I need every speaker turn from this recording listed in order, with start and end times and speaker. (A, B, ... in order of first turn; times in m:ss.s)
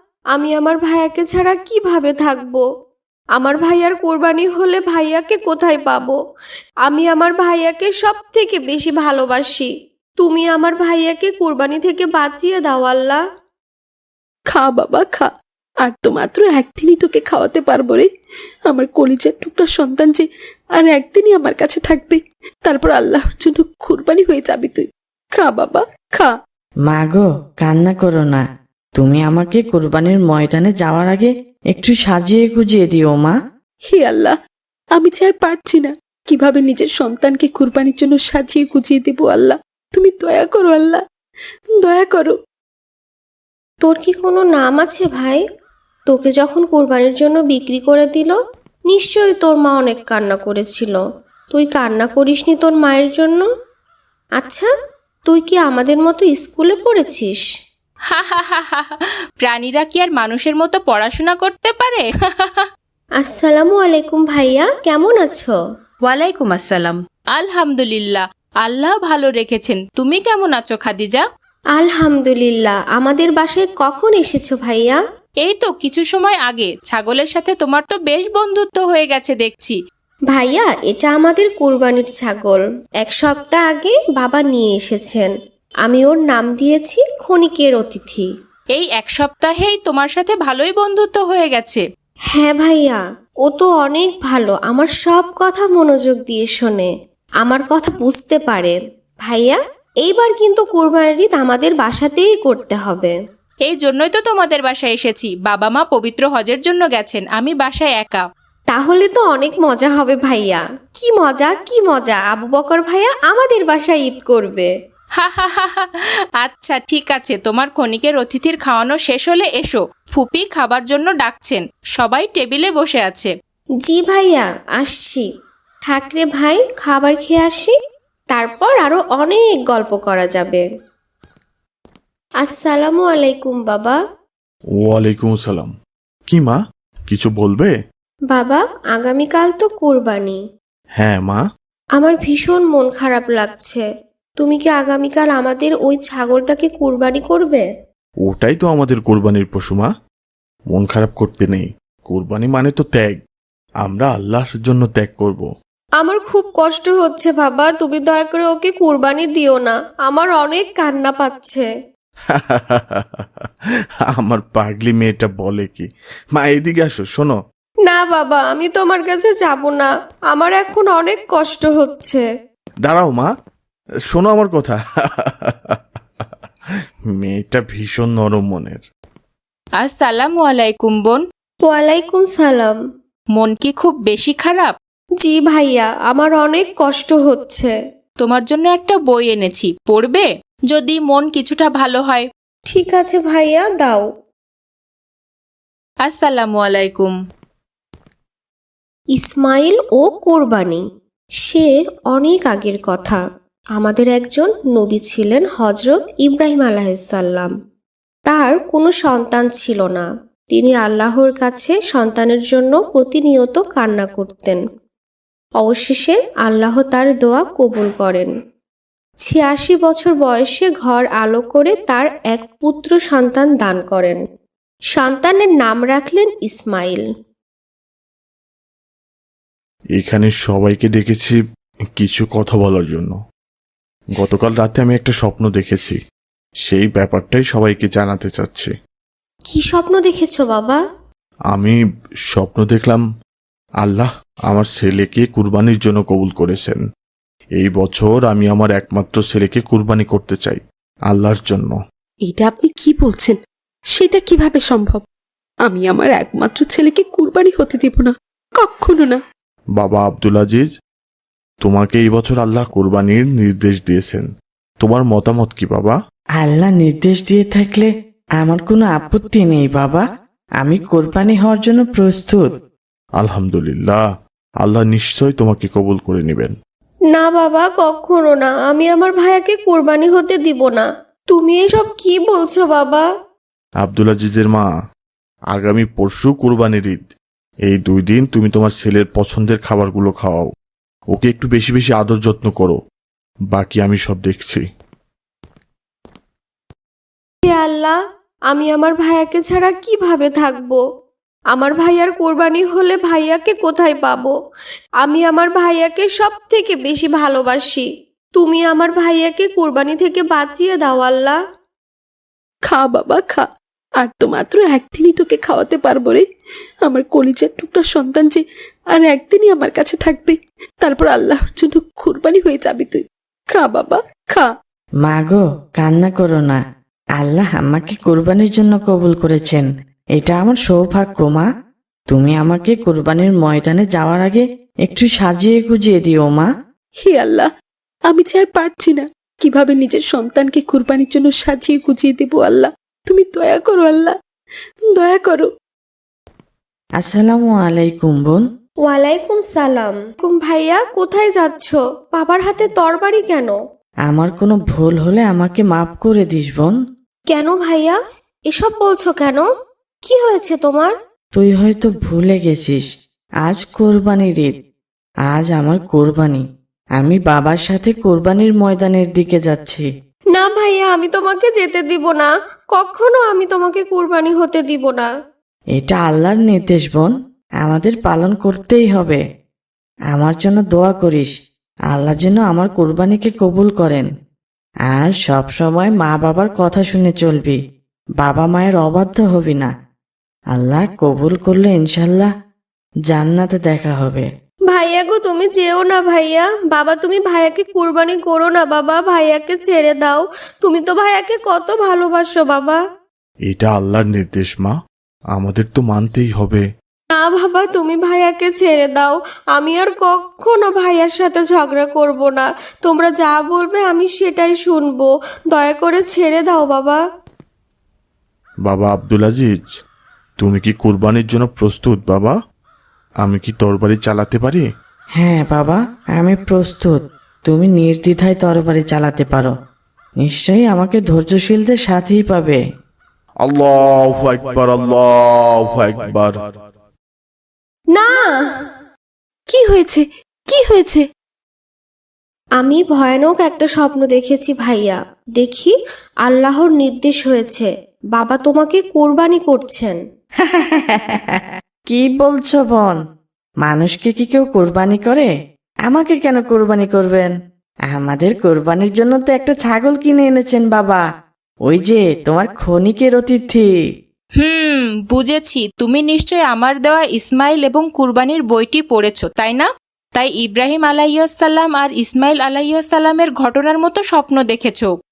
0:00.3-0:02.6 A
0:03.4-0:06.2 A
0:06.8-0:13.2 A
0:14.5-0:15.3 B
0:15.8-0:18.1 B
0:18.7-0:20.2 B
0:20.8-0:26.3 B
0:26.9-0:28.4 C
0:29.0-0:33.4 C
0:33.9-0:34.4 B
0:35.0-0:41.0 B
0:41.8-0:42.4 B
0:43.8-0:45.4 A
0:46.1-0:48.4 A
0:48.9-0:53.5 A
0:54.4-0:54.7 A
0:55.3-0:57.4 A
0:58.1-1:02.7 D
1:03.2-1:05.6 A
1:06.0-1:11.2 D
1:11.7-1:15.0 A
1:15.4-1:19.8 D
1:20.3-1:25.3 A
1:25.8-1:28.3 A
1:28.8-1:31.8 D
1:32.3-1:36.9 A
1:37.4-1:43.2 A
1:43.7-1:48.2 D
1:48.7-1:54.7 A
1:55.2-2:03.3 D
2:03.8-2:05.3 A
2:05.9-2:07.8 A
2:08.3-2:10.6 A
2:12.4-2:14.0 A
2:14.8-2:15.7 E
2:16.3-2:16.6 E
2:17.1-2:17.7 E
2:18.3-2:20.4 A
2:21.0-2:21.4 E
2:22.0-2:23.8 A
2:24.4-2:27.7 A
2:28.2-2:29.9 E
2:30.7-2:33.2 E
2:33.8-2:35.5 E
2:36.0-2:41.7 A
2:42.3-2:43.5 E
2:44.1-2:47.4 E
2:47.9-2:52.3 A
2:52.8-2:53.3 E
2:54.1-2:56.3 E
2:57.2-2:58.8 E
2:59.8-3:01.2 D
3:01.6-3:02.8 A
3:03.4-3:04.7 D
3:05.2-3:07.8 A
3:08.2-3:12.3 D
3:12.7-3:14.0 A
3:16.0-3:17.2 D
3:19.2-3:20.8 A
3:21.4-3:23.2 A
3:23.8-3:27.5 A
3:28.3-3:34.6 A
3:35.6-3:38.3 A
3:39.2-3:44.2 A
3:44.9-3:47.0 A
3:50.0-3:51.4 E
3:52.0-3:53.2 E
3:54.2-3:56.0 E
3:56.6-3:58.7 E
3:59.5-4:00.8 A
4:01.5-4:01.8 E
4:02.3-4:03.0 E
4:03.8-4:06.8 E
4:07.6-4:11.8 E
4:12.3-4:13.4 B
4:13.9-4:15.0 B
4:15.7-4:19.2 B
4:19.8-4:20.7 E
4:21.6-4:24.3 E
4:24.8-4:26.0 E
4:26.4-4:27.9 C
4:28.4-4:30.0 C
4:30.6-4:32.4 C
4:33.2-4:34.0 E
4:34.6-4:36.6 E
4:37.1-4:43.1 A
4:43.8-4:44.7 E
4:45.5-4:47.1 E
4:47.7-4:50.5 E
4:51.1-4:52.8 E
4:53.5-4:54.6 E
4:57.4-4:58.0 A
4:58.5-5:00.8 A
5:01.5-5:04.4 A
5:05.0-5:11.4 A
5:12.7-5:13.5 B
5:14.0-5:16.2 B
5:16.9-5:18.4 B
5:18.9-5:24.5 B
5:25.0-5:26.6 C
5:27.2-5:31.5 C
5:32.1-5:36.5 C
5:37.0-5:37.5 B
5:38.1-5:44.2 B
5:44.9-5:45.5 B
5:47.0-5:48.4 C
5:48.8-5:53.6 A
5:54.1-5:56.8 C
5:57.3-5:58.0 A
5:58.5-5:59.5 A
6:00.0-6:00.9 A
6:01.3-6:02.8 C
6:03.4-6:04.5 C
6:05.3-6:06.4 C
6:07.0-6:09.9 C
6:10.3-6:15.1 A
6:15.8-6:19.2 C
6:20.1-6:21.3 C
6:21.9-6:24.1 C
6:24.9-6:27.6 C
6:28.2-6:29.7 C
6:30.5-6:32.3 C
6:33.1-6:34.3 C
6:34.7-6:42.8 A
6:43.5-6:44.8 E
6:45.3-6:46.6 E
6:47.1-6:57.0 A
6:58.6-6:59.7 E
7:00.4-7:02.4 E
7:03.2-7:04.7 E
7:05.2-7:09.5 C
7:10.2-7:12.6 C
7:13.4-7:16.4 E
7:17.9-7:18.6 A
7:19.5-7:21.1 B
7:22.6-7:30.0 A
7:30.4-7:33.0 C
7:33.6-7:35.3 C
7:35.9-7:37.3 C
7:37.9-7:41.0 C
7:41.7-7:43.7 C
7:44.4-7:54.9 D